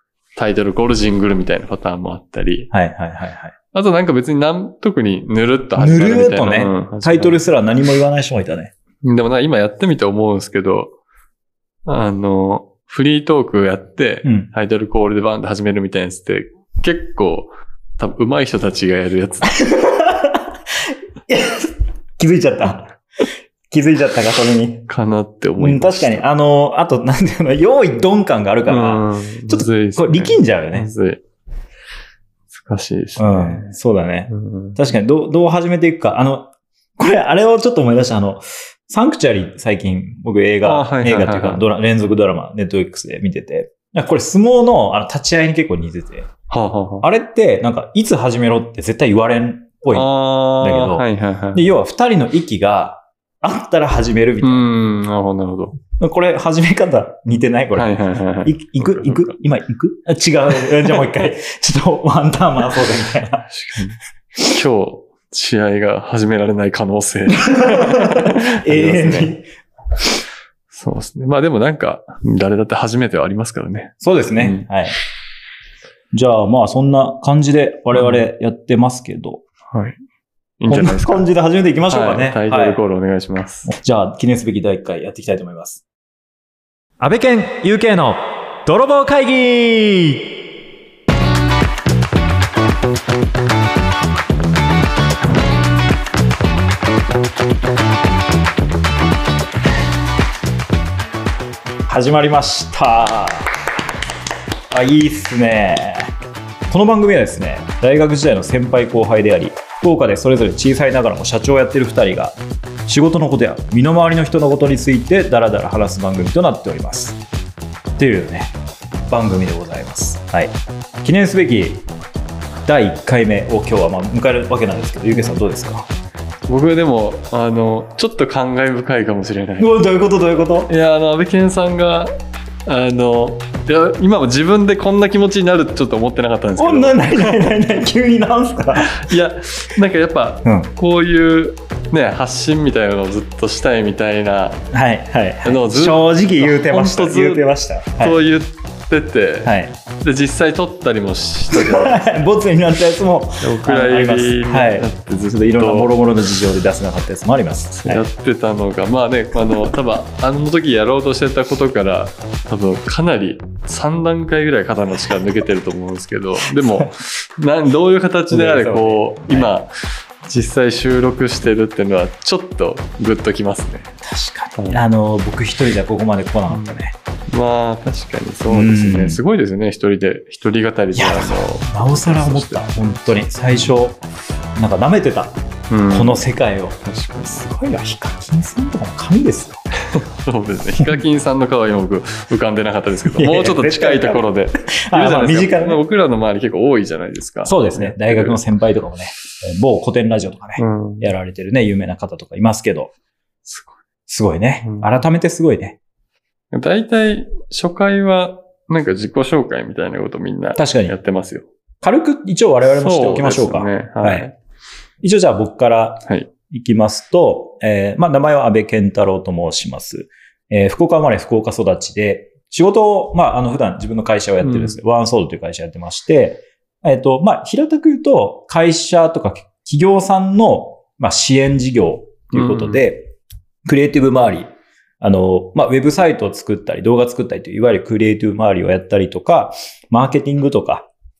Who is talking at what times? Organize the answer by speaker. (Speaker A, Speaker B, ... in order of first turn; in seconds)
Speaker A: 0.3-2.7, 3.7-7.4, 9.0-10.9, 11.9-19.5, 24.9-26.2, 28.7-31.2, 32.5-33.7, 34.3-34.8, 40.6-41.6, 46.5-47.1, 49.9-51.7, 54.4-55.8, 57.8-59.3, 63.5-69.3, 70.7-74.7, 77.9-78.3, 79.7-80.0, 80.6-81.2, 81.9-83.7, 126.5-129.7, 130.7-132.1, 132.7-137.6, 138.8-144.6, 145.4-147.4, 148.0-152.2, 153.4-155.9, 157.8-169.7, 170.2-173.9, 174.5-174.8, 176.5-176.8, 177.3-183.7, 185.7-186.3, 186.8-187.4, 189.9-198.4, 200.6-201.1, 203.4-203.8, 204.6-204.9, 206.5-211.5, 212.6-214.3, 224.4-224.8, 232.3-232.8
Speaker B: 2.7-3.5, 5.8-8.7, 14.2-14.5, 19.5-23.0, 23.7-24.9, 25.6-30.9, 33.2-46.3, 47.0-54.7, 56.0-63.5, 67.5-69.4, 74.0-74.9, 76.1-79.4, 80.7-82.8, 83.7-85.8, 87.0-90.3, 101.9-103.5, 104.7-106.1, 106.7-117.2, 118.0-118.5, 119.1-121.9, 122.7-125.9, 129.6-130.7, 136.6-139.0, 140.4-140.7, 144.7-148.2, 149.4-149.7, 151.5-158.0, 166.4-167.0, 168.3-169.5, 174.0-176.9, 178.5-179.2, 180.9-184.0, 184.6-185.3, 185.9-189.6, 193.1-195.8, 197.4-202.9, 204.1-205.8, 210.6-210.9, 211.8-214.3, 215.0-233.1, 233.6-234.5, 235.0-240.9